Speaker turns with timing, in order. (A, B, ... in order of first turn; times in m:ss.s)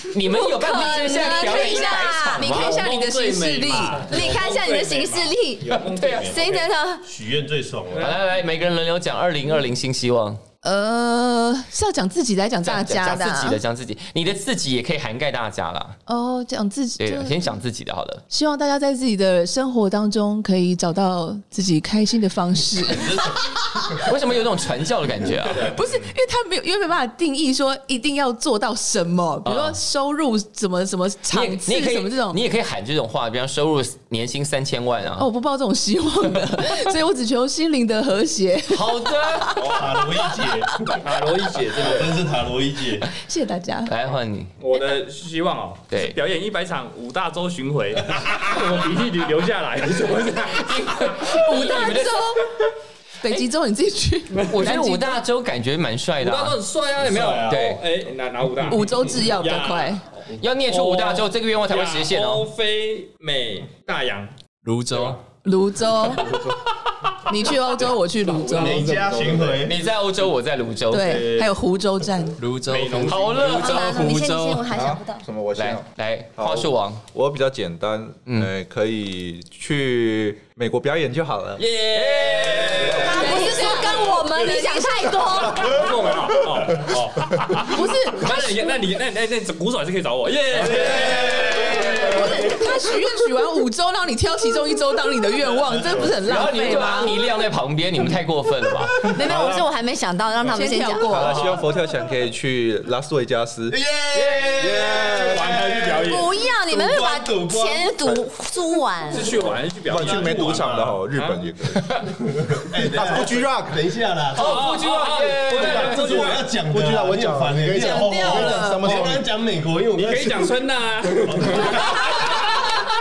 0:00.1-0:02.8 A
0:00.3-0:02.5 B
0:00.4-0:04.2 C
0:02.4-0:06.7 D
0:04.1-0:07.1 B
0:05.8-0:06.4 A
0:07.0-0:08.2 E
0:08.0-0:10.4 A
0:10.6-0:13.6 C
0:12.6-0:16.0 A
0:16.1-0:17.3 C
0:17.0-0:18.2 A
0:18.3-0:24.0 C
0:24.0-0:25.7 A
0:25.6-0:32.4 C
0:29.4-0:29.8 A
0:31.3-0:35.3 A
0:35.2-0:40.9 C
0:38.7-0:39.6 A
0:39.6-0:39.9 D
0:39.7-0:40.8 E
0:40.8-0:42.2 D
0:41.7-0:43.1 E
0:43.2-0:43.9 C
0:43.9-0:44.5 A
0:44.6-0:51.3 D
0:45.9-0:46.2 A
0:50.6-0:52.3 A
0:51.2-0:52.5 C
0:53.2-0:54.7 C
0:54.3-0:55.1 D
0:54.5-0:56.6 A
0:56.2-1:04.3 D
0:57.2-0:57.5 E
0:57.3-0:57.8 A
0:58.7-1:00.0 C
1:00.4-1:02.5 A
1:04.6-1:05.2 F
1:05.4-1:06.4 C
1:06.2-1:06.5 G
1:07.3-1:08.8 C
1:08.2-1:09.5 D
1:08.6-1:09.8 E
1:08.9-1:09.5 G
1:09.6-1:11.3 A
1:10.9-1:12.4 C
1:11.0-1:11.5 E
1:12.4-1:14.7 F
1:12.7-1:13.6 D
1:13.0-1:14.1 A
1:13.5-1:15.2 B
1:14.7-1:15.9 G
1:15.6-1:17.0 A
1:16.4-1:21.7 G
1:21.6-1:24.3 D
1:21.9-1:23.4 A
1:23.0-1:25.8 B
1:23.1-1:25.4 C
1:25.5-1:32.5 D
1:27.7-1:28.7 C
1:31.1-1:31.4 E
1:31.8-1:32.2 A
1:32.0-1:37.2 C
1:36.2-1:39.1 A
1:39.0-1:41.2 B
1:39.2-1:39.6 G
1:40.4-1:41.5 C
1:41.1-1:43.8 G
1:41.2-1:41.4 D
1:43.7-1:47.9 E
1:44.2-1:44.8 A
1:44.6-1:46.3 D
1:46.0-1:49.3 B
1:49.1-1:51.4 D
1:49.2-1:51.0 E
1:49.9-1:52.0 G
1:52.4-1:54.7 E
1:52.8-1:53.8 G
1:53.0-1:53.2 D
1:54.4-1:56.3 A
1:54.4-1:56.4 D
1:55.5-2:00.5 E
1:56.7-1:59.2 G
1:57.8-1:58.9 C
2:00.0-2:02.5 D
2:01.2-2:02.4 E